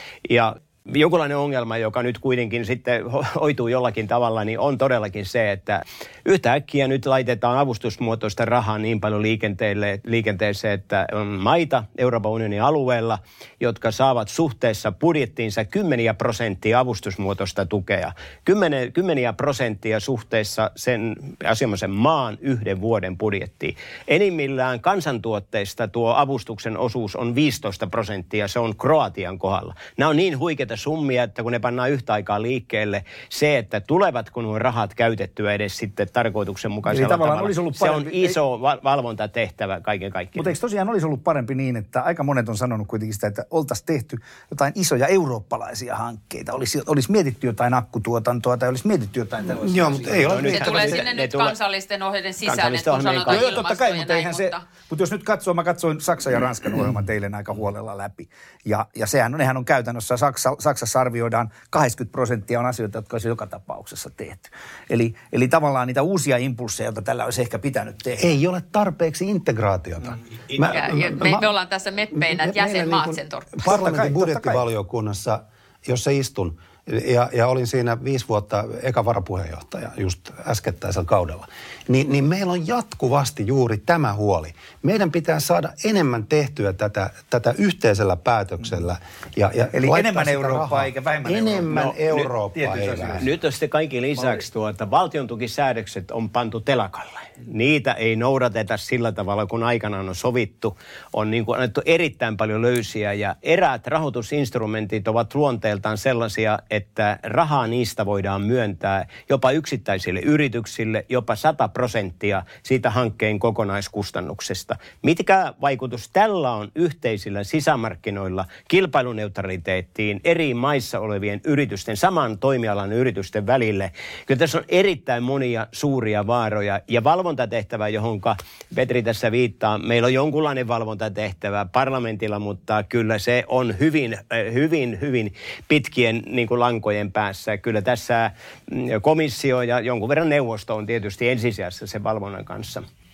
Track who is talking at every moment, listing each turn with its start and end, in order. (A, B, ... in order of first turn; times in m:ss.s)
0:00.2-0:40.5 A
0:36.9-0:38.4 B
0:40.4-0:50.5 B
0:49.5-0:51.0 C
0:50.2-0:51.5 A
0:50.5-0:54.6 D
0:52.4-0:53.6 A
0:53.2-1:08.3 B
1:08.2-1:11.5 C
1:10.6-1:13.5 D
1:12.2-1:33.3 C
1:13.6-1:14.6 B
1:29.7-1:31.9 B
1:32.5-1:33.2 B
1:33.1-2:22.8 A